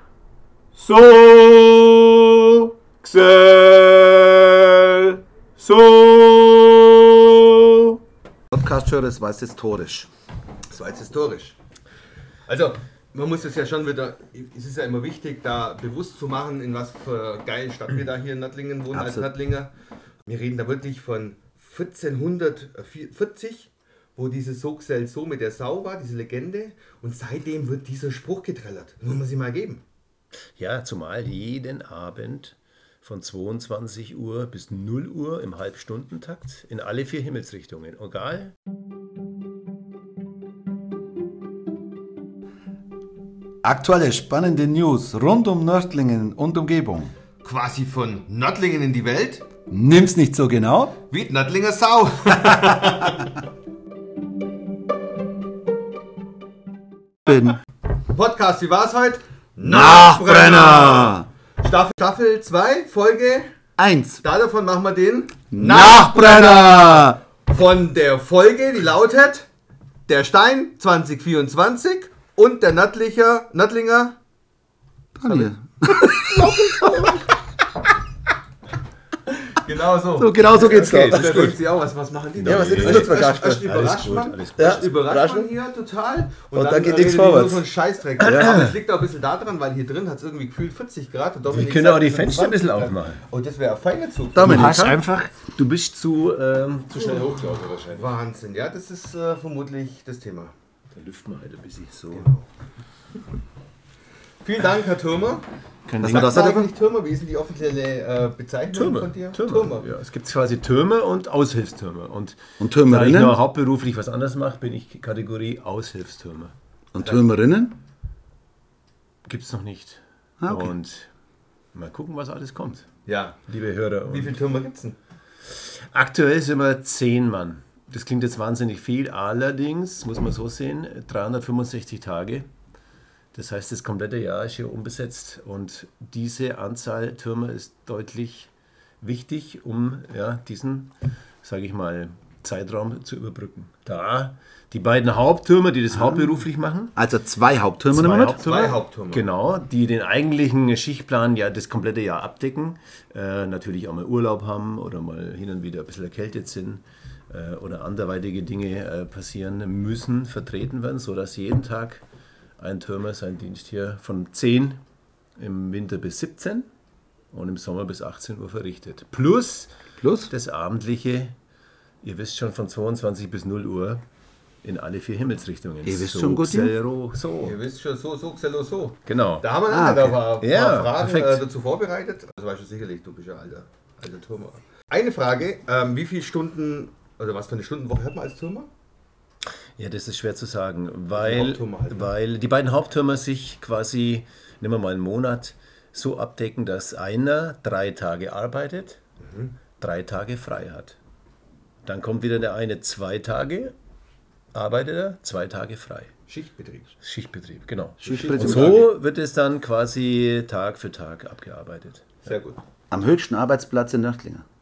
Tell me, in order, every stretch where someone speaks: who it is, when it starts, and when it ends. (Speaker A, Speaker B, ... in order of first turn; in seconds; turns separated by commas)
Speaker A: 0.7-8.0, Speaker B: 8.5-10.1, Speaker C: 10.7-11.6, Speaker C: 12.5-19.7, Speaker B: 18.9-19.3, Speaker C: 20.3-29.8, Speaker A: 30.6-38.5, Speaker B: 43.6-47.1, Speaker C: 47.4-49.5, Speaker B: 49.7-51.0, Speaker C: 51.1-53.3, Speaker B: 52.5-52.9, Speaker B: 57.2-57.6, Speaker C: 58.1-63.5, Speaker B: 59.6-61.3, Speaker B: 63.8-64.2, Speaker C: 64.2-69.5, Speaker B: 65.5-67.2, Speaker C: 70.1-74.2, Speaker B: 75.2-77.2, Speaker C: 75.2-77.3, Speaker C: 79.3-94.8, Speaker B: 80.2-81.5, Speaker A: 80.5-81.6, Speaker A: 82.4-85.1, Speaker B: 82.5-83.7, Speaker B: 84.6-85.5, Speaker B: 86.5-87.6, Speaker B: 88.2-88.5, Speaker A: 88.2-88.8, Speaker A: 91.5-93.2, Speaker B: 94.3-95.0, Speaker A: 94.4-98.1, Speaker C: 97.9-100.5, Speaker A: 100.9-102.3, Speaker C: 102.1-102.5, Speaker C: 104.4-105.5, Speaker A: 105.9-106.6, Speaker B: 106.0-106.7, Speaker C: 106.0-109.9, Speaker A: 108.7-116.5, Speaker B: 112.6-113.4, Speaker B: 116.9-117.8, Speaker A: 119.3-121.1, Speaker B: 120.4-120.8, Speaker A: 121.7-122.9, Speaker C: 123.1-123.4, Speaker A: 123.5-124.4, Speaker C: 124.1-125.0, Speaker A: 125.5-132.5, Speaker A: 133.3-138.5, Speaker A: 139.0-146.9, Speaker B: 145.9-146.4, Speaker B: 147.0-148.4, Speaker A: 147.9-162.0, Speaker C: 148.4-149.2, Speaker A: 162.6-164.8, Speaker A: 165.4-166.7, Speaker A: 167.3-169.7, Speaker B: 170.0-170.3, Speaker A: 170.3-171.3, Speaker A: 172.0-174.0, Speaker A: 174.6-177.6, Speaker B: 175.8-176.8, Speaker C: 177.4-188.7, Speaker A: 179.1-179.5, Speaker B: 179.7-180.2, Speaker A: 180.1-181.4, Speaker A: 189.8-199.0, Speaker C: 191.1-192.1, Speaker C: 199.2-199.6, Speaker A: 199.8-201.0, Speaker A: 201.8-203.8, Speaker A: 204.5-206.1, Speaker C: 206.3-206.9, Speaker A: 207.0-212.3, Speaker C: 208.0-208.9, Speaker B: 208.0-208.8, Speaker C: 212.2-212.6, Speaker B: 212.9-214.4